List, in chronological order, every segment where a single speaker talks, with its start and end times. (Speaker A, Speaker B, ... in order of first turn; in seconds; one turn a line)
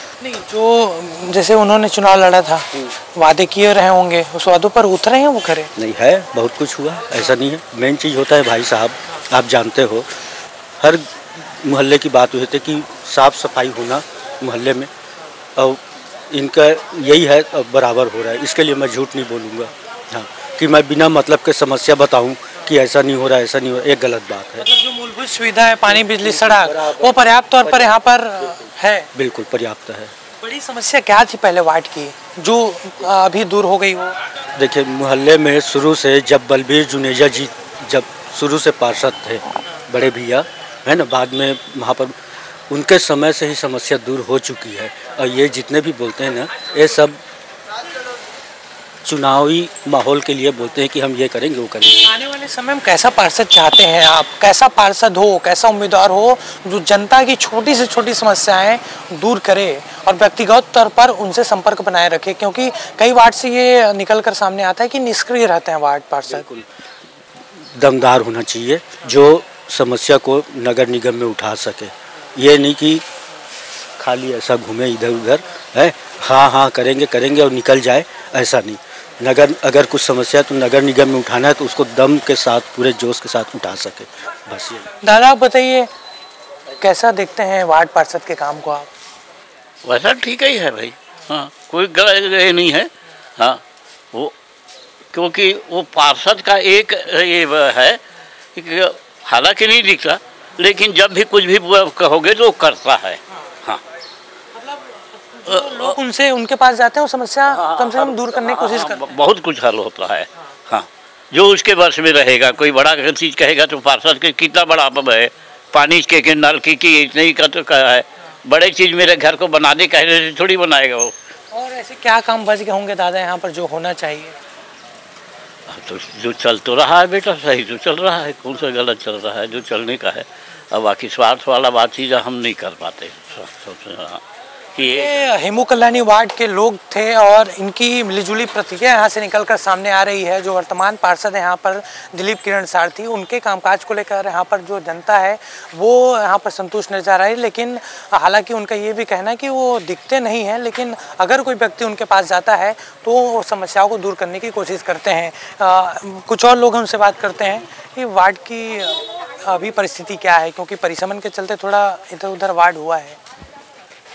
Speaker A: 0.2-5.7
Speaker B: 5.8-10.1
Speaker B: 10.8-14.9
Speaker B: 15.6-24.6
Speaker A: 24.6-29.1
Speaker B: 26.2-27.1
Speaker B: 29.1-30.1
Speaker A: 30.4-34.2
Speaker B: 34.6-42.1
Speaker B: 42.7-47.2
Speaker B: 49.0-52.1
Speaker A: 52.0-66.5
Speaker B: 66.3-66.6
Speaker B: 67.8-73.0
Speaker B: 74.0-84.9
Speaker A: 85.0-85.9
Speaker A: 86.8-88.9
Speaker C: 89.8-93.6
Speaker C: 95.1-98.0
Speaker C: 98.5-103.8
Speaker A: 104.6-109.1
Speaker C: 105.5-106.0
Speaker C: 107.5-121.1
Speaker A: 121.5-124.3
Speaker C: 125.7-134.2
Speaker C: 134.8-135.2
Speaker A: 134.9-163.2